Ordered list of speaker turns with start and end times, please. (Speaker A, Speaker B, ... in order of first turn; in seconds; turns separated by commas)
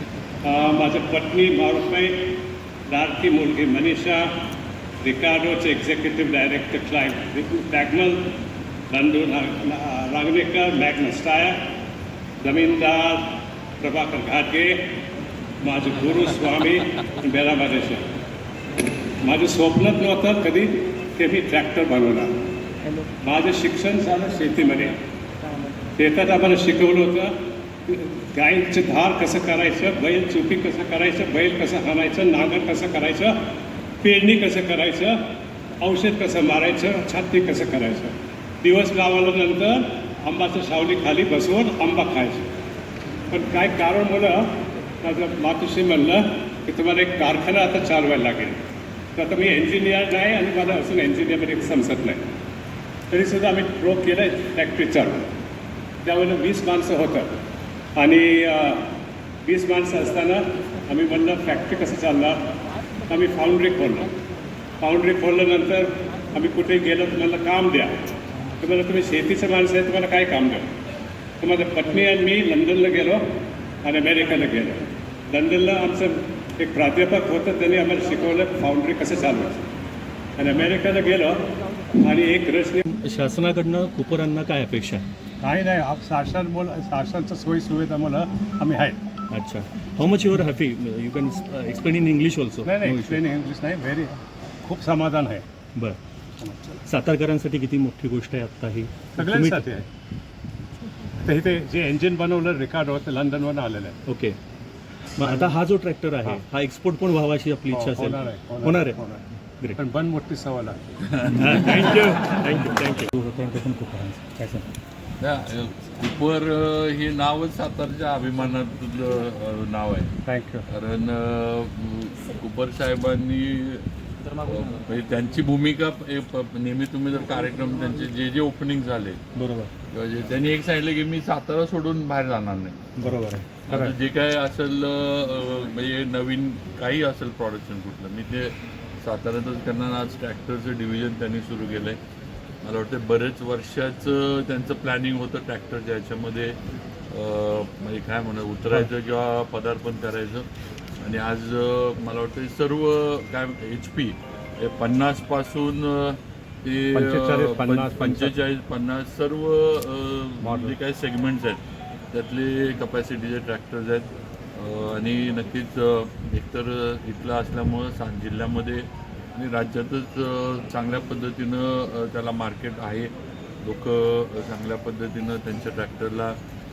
Speaker A: 0.4-4.3, Speaker A: 5.0-8.3, Speaker A: 8.9-11.7, Speaker A: 12.4-15.0, Speaker A: 15.6-18.1, Speaker A: 19.2-22.4, Speaker A: 23.2-25.0, Speaker A: 25.9-33.5, Speaker A: 34.0-42.6, Speaker A: 43.3-48.6, Speaker A: 49.1-52.3, Speaker A: 53.1-55.3, Speaker A: 56.0-57.4, Speaker A: 58.0-62.5, Speaker A: 63.1-64.1, Speaker A: 64.8-70.7, Speaker A: 71.4-79.7, Speaker A: 80.3-82.8, Speaker B: 82.8-85.0, Speaker A: 85.4-89.0, Speaker B: 89.3-93.2, Speaker A: 92.6-95.5, Speaker A: 96.4-96.8, Speaker B: 96.8-99.8, Speaker A: 99.2-99.8, Speaker A: 101.2-104.0, Speaker B: 104.1-104.4, Speaker B: 105.2-109.0, Speaker A: 105.2-105.6, Speaker A: 107.7-109.2, Speaker A: 109.8-111.0, Speaker C: 111.0-111.8, Speaker B: 111.3-114.7, Speaker C: 115.2-120.1, Speaker A: 120.2-120.6, Speaker C: 120.7-129.2, Speaker B: 129.3-129.7, Speaker C: 129.9-132.9, Speaker B: 133.0-133.9, Speaker C: 133.7-142.0, Speaker C: 142.6-146.5, Speaker C: 147.1-150.5, Speaker C: 151.0-173.1, Speaker A: 156.9-158.3, Speaker A: 160.4-160.7, Speaker C: 173.6-176.4